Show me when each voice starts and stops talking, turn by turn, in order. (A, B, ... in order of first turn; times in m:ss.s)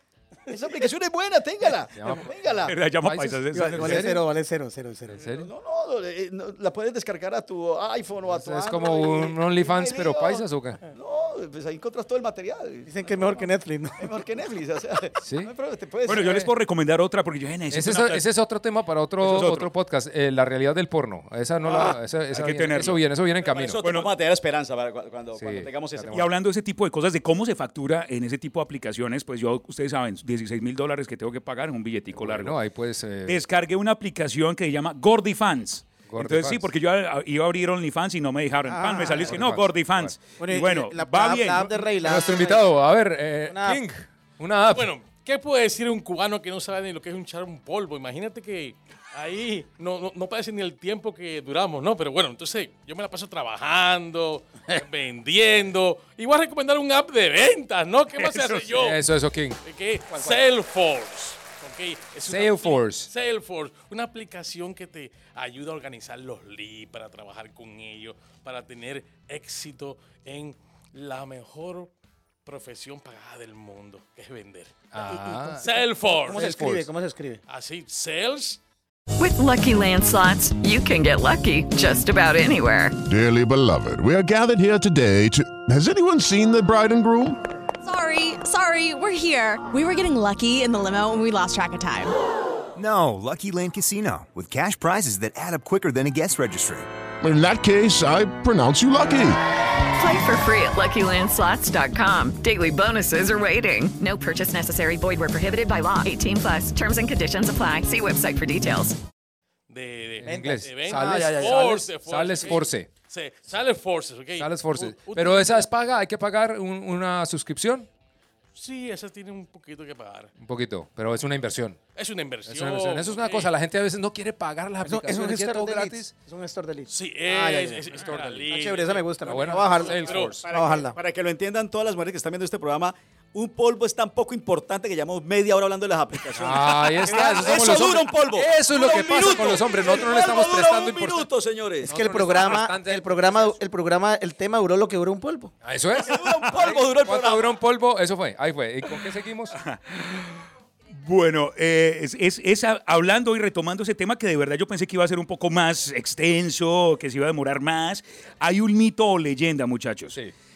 0:00.5-0:02.7 A
0:01.9-0:04.2 B
0:02.6-0:04.2 C
0:03.5-0:05.2 D
0:05.1-0:05.5 B
0:05.4-0:12.9 A
0:08.2-0:10.8 B
0:12.8-0:14.1 D
0:14.0-0:16.5 A
0:15.2-0:15.5 B
0:16.0-0:18.3 C
0:17.7-0:23.8 B
0:19.2-0:19.7 C
0:22.3-0:23.0 C
0:23.4-0:26.2 A
0:23.8-0:24.1 C
0:25.4-0:26.3 B
0:26.1-0:32.6 C
0:32.1-0:33.4 B
0:33.2-0:41.9 C
0:36.1-0:36.7 B
0:38.7-0:39.3 D
0:39.1-0:40.2 B
0:40.4-0:42.7 D
0:42.0-0:44.9 B
0:43.5-0:43.8 D
0:44.7-0:59.0 E
0:58.3-0:58.6 C
0:58.7-0:59.6 B
0:59.6-1:11.9 E
1:02.2-1:03.1 B
1:12.4-1:14.7 E
1:14.9-1:15.6 B
1:15.0-1:17.4 D
1:15.6-1:16.5 E
1:16.3-1:16.9 B
1:17.5-1:18.6 E
1:19.2-1:23.0 F
1:23.0-1:27.4 G
1:27.8-1:32.1 H
1:32.7-1:36.9 I
1:37.2-1:39.4 G
1:40.0-1:49.0 F
1:49.7-1:55.6 E
1:50.2-1:52.9 B
1:50.2-1:51.5 D
1:54.4-1:57.9 B
1:58.5-2:00.3 E
2:00.4-2:01.8 B
2:01.9-2:03.5 E
2:02.4-2:06.1 B
2:04.8-2:07.9 D
2:06.9-2:10.4 E
2:07.9-2:08.5 B
2:08.5-2:11.0 D
2:09.2-2:10.4 B
2:10.1-2:21.9 A
2:16.3-2:21.3 B
2:21.8-2:23.6 B
2:21.9-2:25.5 D
2:25.6-2:29.6 B
2:26.0-2:27.6 A
2:29.5-2:40.2 C